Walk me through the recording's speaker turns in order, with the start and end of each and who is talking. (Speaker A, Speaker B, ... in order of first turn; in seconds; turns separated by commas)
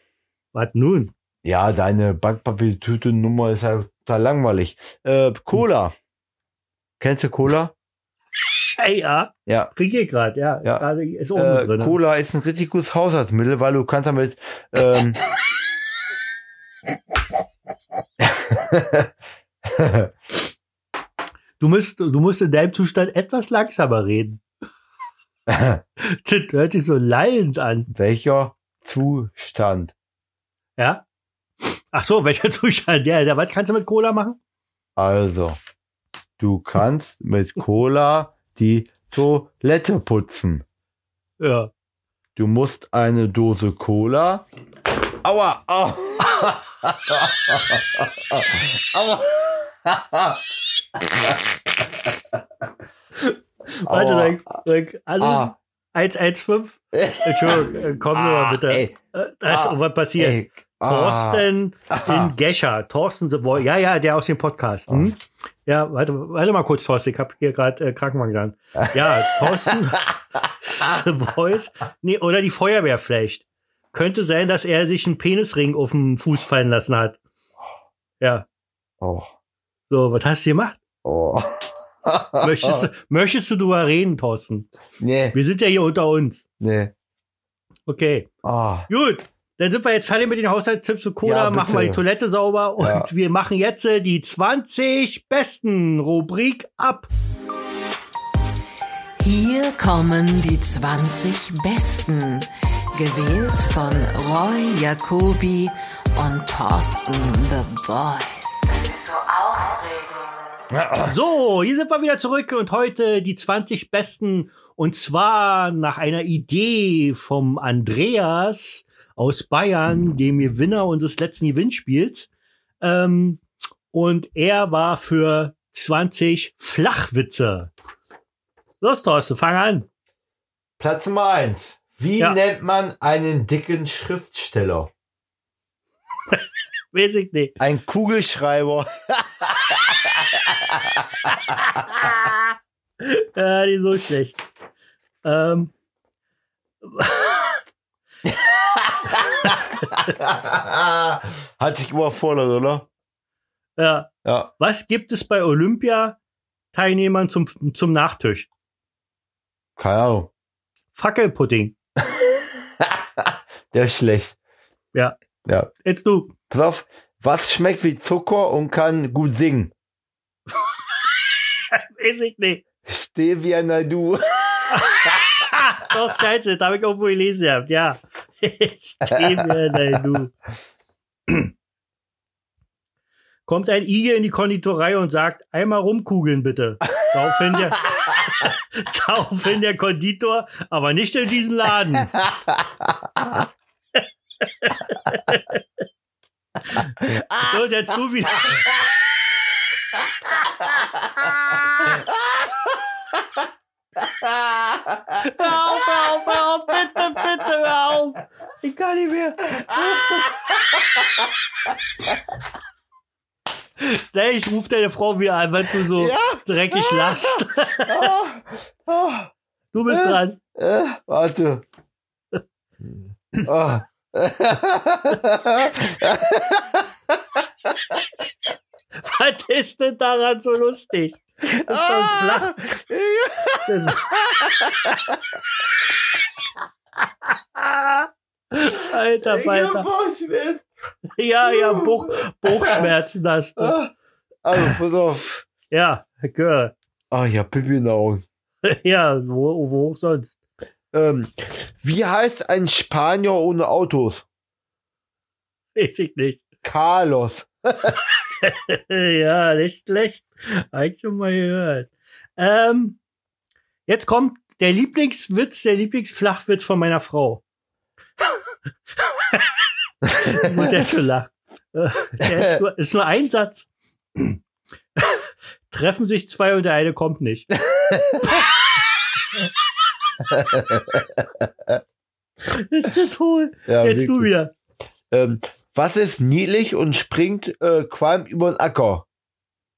Speaker A: 0.5-1.1, Speaker B: 1.4-5.9, Speaker B: 7.0-7.7, Speaker A: 8.8-11.9, Speaker B: 10.6-15.2, Speaker B: 18.2-19.1, Speaker B: 19.6-20.1, Speaker A: 21.6-24.4, Speaker B: 25.5-25.8, Speaker A: 26.0-27.9, Speaker B: 27.9-29.9, Speaker A: 30.8-31.0, Speaker A: 31.6-34.4, Speaker B: 35.0-35.6, Speaker B: 36.4-40.6, Speaker A: 41.4-41.7, Speaker B: 42.4-44.5, Speaker B: 45.2-50.4, Speaker B: 51.0-51.4, Speaker A: 53.2-77.2, Speaker B: 53.9-54.5, Speaker B: 55.2-55.5, Speaker B: 56.9-59.0, Speaker B: 59.5-62.3, Speaker B: 68.8-69.8, Speaker A: 78.2-78.5, Speaker B: 79.0-79.3, Speaker A: 79.9-80.8, Speaker B: 81.0-82.9, Speaker A: 82.4-84.7, Speaker B: 85.0-85.4, Speaker A: 85.3-86.4, Speaker B: 86.6-86.9, Speaker A: 87.9-88.3, Speaker B: 88.4-88.9, Speaker A: 88.9-97.1, Speaker B: 91.2-92.0, Speaker B: 92.8-93.1, Speaker C: 99.2-110.3, Speaker B: 110.7-111.1, Speaker A: 111.1-122.3, Speaker A: 122.8-127.7, Speaker A: 128.8-129.9, Speaker B: 130.8-134.9, Speaker A: 136.9-137.6, Speaker B: 137.6-141.3, Speaker A: 141.5-144.4, Speaker A: 145.2-145.7, Speaker A: 146.8-147.6, Speaker B: 148.3-152.9, Speaker A: 153.8-156.2, Speaker B: 154.2-154.5, Speaker A: 156.7-158.5, Speaker B: 159.8-160.3, Speaker A: 160.9-161.8, Speaker B: 162.8-164.4, Speaker A: 165.8-166.3, Speaker B: 166.5-169.7, Speaker A: 171.7-172.6, Speaker B: 172.8-175.2, Speaker A: 174.7-180.3, Speaker A: 183.5-192.1, Speaker B: 187.5-188.0, Speaker B: 192.8-193.4, Speaker A: 194.6-195.6, Speaker A: 196.7-198.6, Speaker B: 197.0-197.5, Speaker B: 201.1-202.7, Speaker B: 204.0-206.4, Speaker A: 205.2-210.2, Speaker B: 209.6-211.2, Speaker A: 213.8-218.1, Speaker B: 215.8-219.3, Speaker A: 219.7-220.4, Speaker B: 219.9-221.6, Speaker B: 223.4-227.4, Speaker A: 229.0-232.5, Speaker B: 231.7-235.2, Speaker A: 233.7-234.0, Speaker A: 238.5-239.9, Speaker B: 239.2-240.7, Speaker A: 241.2-243.8, Speaker B: 241.4-242.9, Speaker B: 243.6-243.9, Speaker B: 244.4-245.5, Speaker A: 245.7-246.7, Speaker B: 247.1-248.2, Speaker A: 248.6-250.3, Speaker B: 250.9-254.2, Speaker A: 255.8-256.4, Speaker B: 256.6-257.9, Speaker A: 258.3-263.0, Speaker A: 263.9-267.4, Speaker A: 270.1-274.4, Speaker B: 270.2-270.6, Speaker A: 275.0-277.5, Speaker B: 277.7-278.3, Speaker B: 280.2-281.8, Speaker A: 282.4-284.5, Speaker B: 283.7-284.3, Speaker B: 285.1-289.1